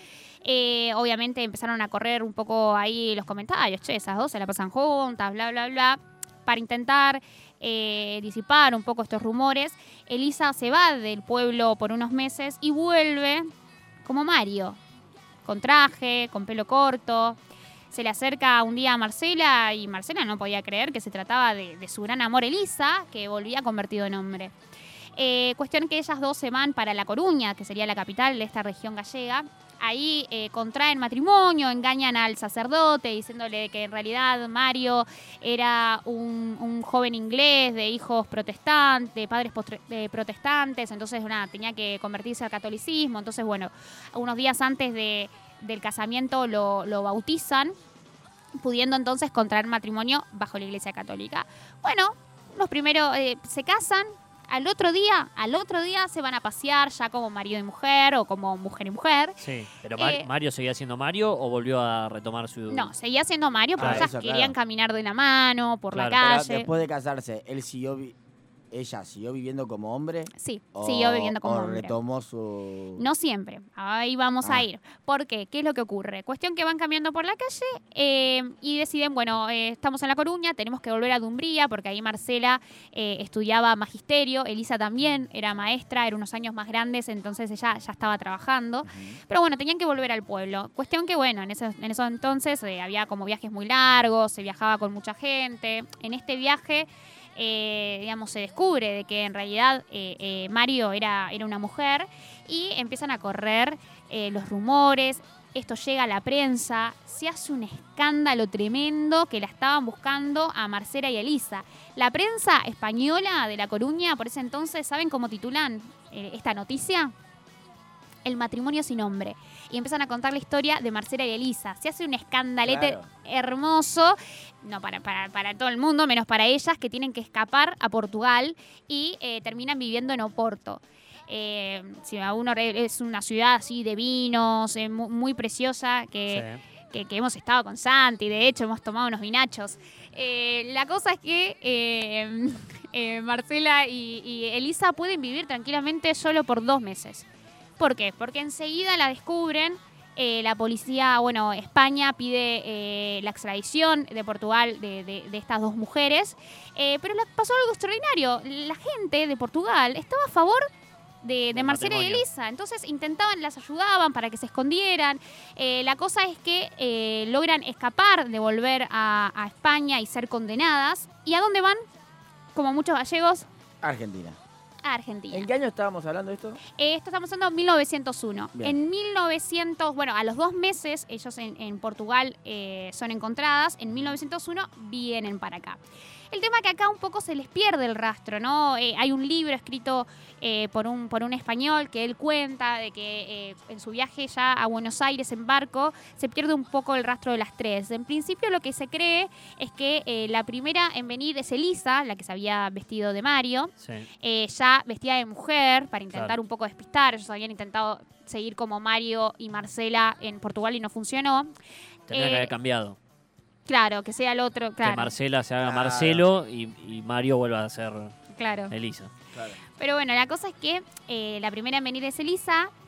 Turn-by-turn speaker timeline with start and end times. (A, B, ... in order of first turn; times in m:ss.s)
0:00.4-0:13.5 A
0:14.0-0:14.8 A
0:15.4-0:17.4 A
0:17.9-0:24.5 A
0:25.2-0:47.7 A
0:48.6-0:59.4 A
0:59.4-1:02.9 B
0:59.9-1:00.3 A
1:02.7-1:06.7 A
1:03.8-1:04.5 C
1:03.8-1:04.0 B
1:05.9-1:06.2 B
1:06.2-1:08.1 C
1:08.7-1:13.0 C
1:10.3-1:12.0 A
1:13.0-1:57.1 A
1:28.8-1:29.2 C
1:58.2-2:27.2 A
2:02.6-2:03.1 C
2:16.3-2:16.6 B
2:27.8-2:40.7 A
2:41.2-2:51.8 A
2:41.5-2:42.2 B
2:52.5-2:53.5 A
2:53.8-2:54.4 C
2:54.8-2:55.5 A
2:55.3-2:56.6 C
2:56.7-3:05.8 A
3:06.3-3:31.5 A
3:23.8-3:24.1 B
3:32.1-3:33.0 B
3:32.1-3:32.5 A
3:33.7-3:35.1 A
3:34.8-3:38.1 B
3:35.6-3:36.2 C
3:38.4-3:38.7 A
3:38.7-3:39.1 B
3:39.3-3:39.6 C
3:39.8-3:42.7 A